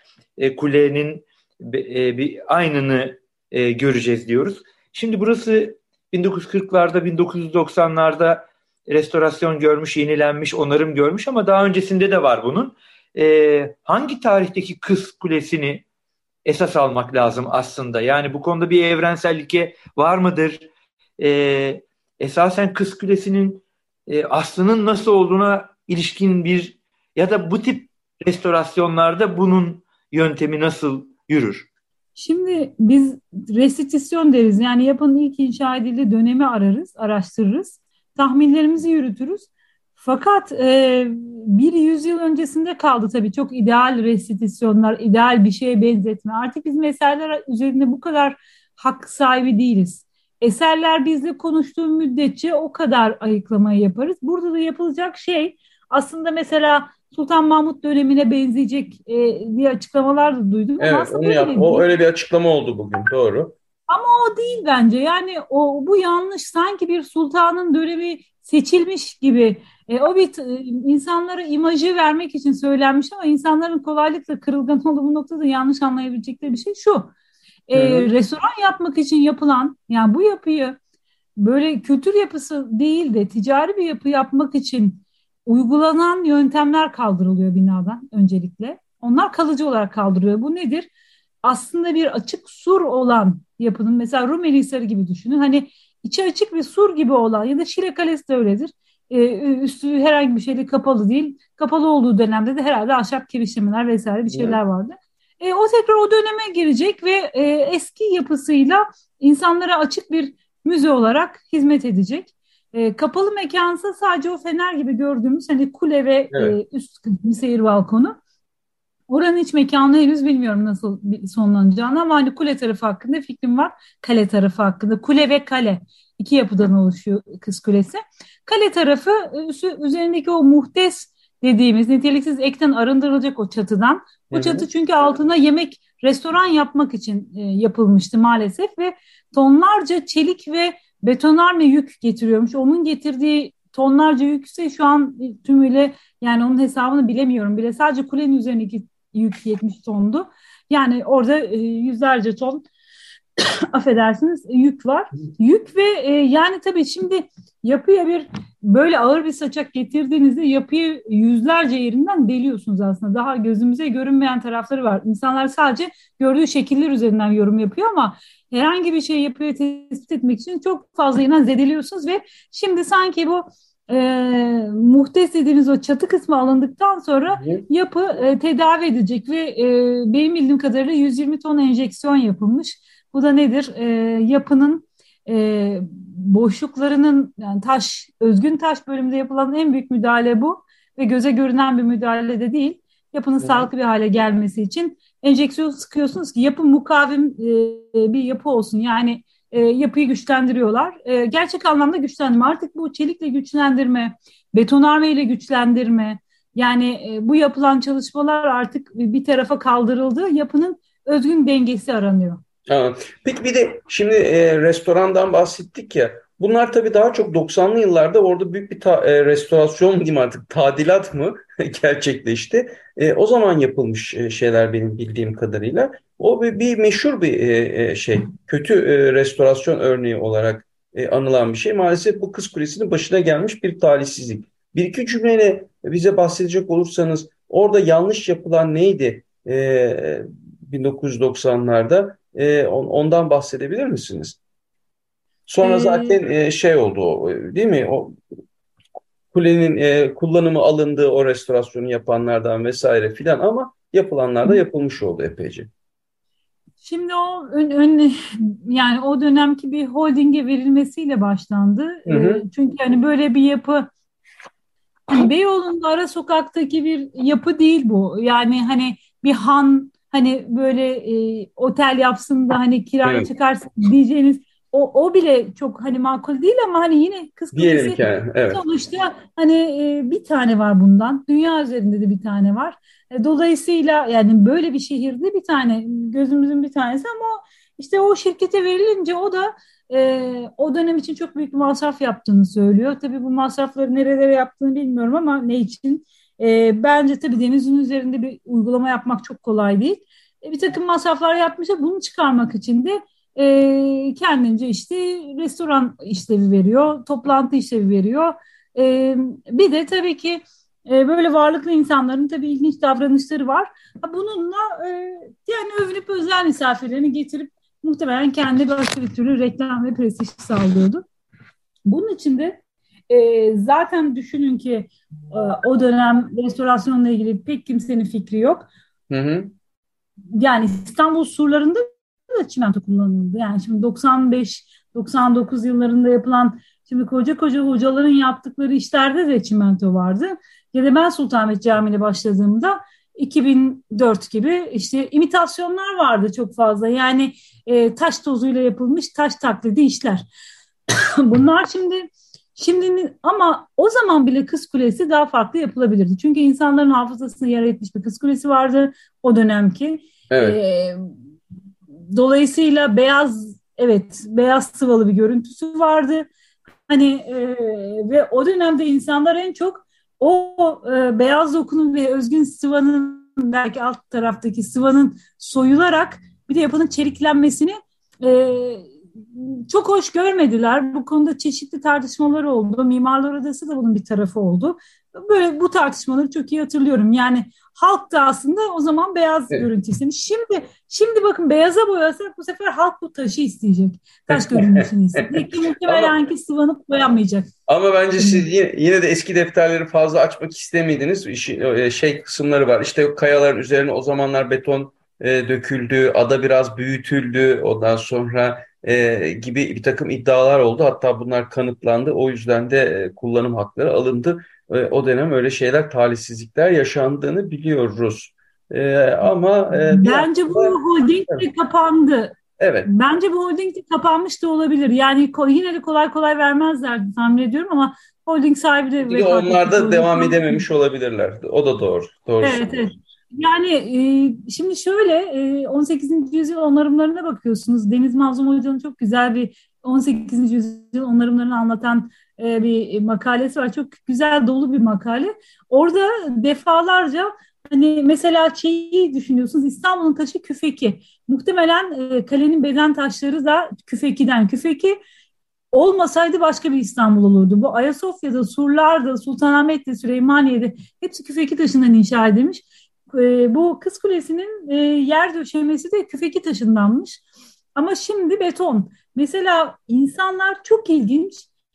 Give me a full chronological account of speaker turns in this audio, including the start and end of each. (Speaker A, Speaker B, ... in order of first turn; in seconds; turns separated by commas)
Speaker A: 0.4-15.8, Speaker A: 16.4-20.7, Speaker A: 21.2-31.7, Speaker B: 32.1-61.8, Speaker C: 60.8-63.5, Speaker B: 63.9-77.1, Speaker B: 77.7-80.8, Speaker C: 77.7-78.1, Speaker B: 81.4-90.9, Speaker B: 91.4-118.2, Speaker C: 104.3-104.6, Speaker C: 116.3-116.6, Speaker B: 119.1-152.6, Speaker C: 134.3-134.7, Speaker B: 153.4-212.4, Speaker C: 193.4-193.7, Speaker C: 212.7-244.4, Speaker C: 245.5-248.2, Speaker B: 245.6-246.2, Speaker C: 249.3-255.7, Speaker B: 256.8-263.9, Speaker C: 262.1-262.4, Speaker B: 265.1-321.0, Speaker C: 273.0-273.3, Speaker C: 277.5-278.6, Speaker B: 321.9-328.7, Speaker C: 329.1-329.5, Speaker B: 330.3-350.2, Speaker B: 350.9-361.1, Speaker C: 360.3-360.6, Speaker B: 362.1-366.3, Speaker B: 366.9-397.5, Speaker C: 394.3-396.1, Speaker C: 397.7-420.8, Speaker B: 398.2-398.4, Speaker B: 419.7-430.6, Speaker C: 422.6-422.9, Speaker C: 429.0-432.9, Speaker B: 432.4-455.0, Speaker B: 455.7-467.2, Speaker B: 467.7-471.5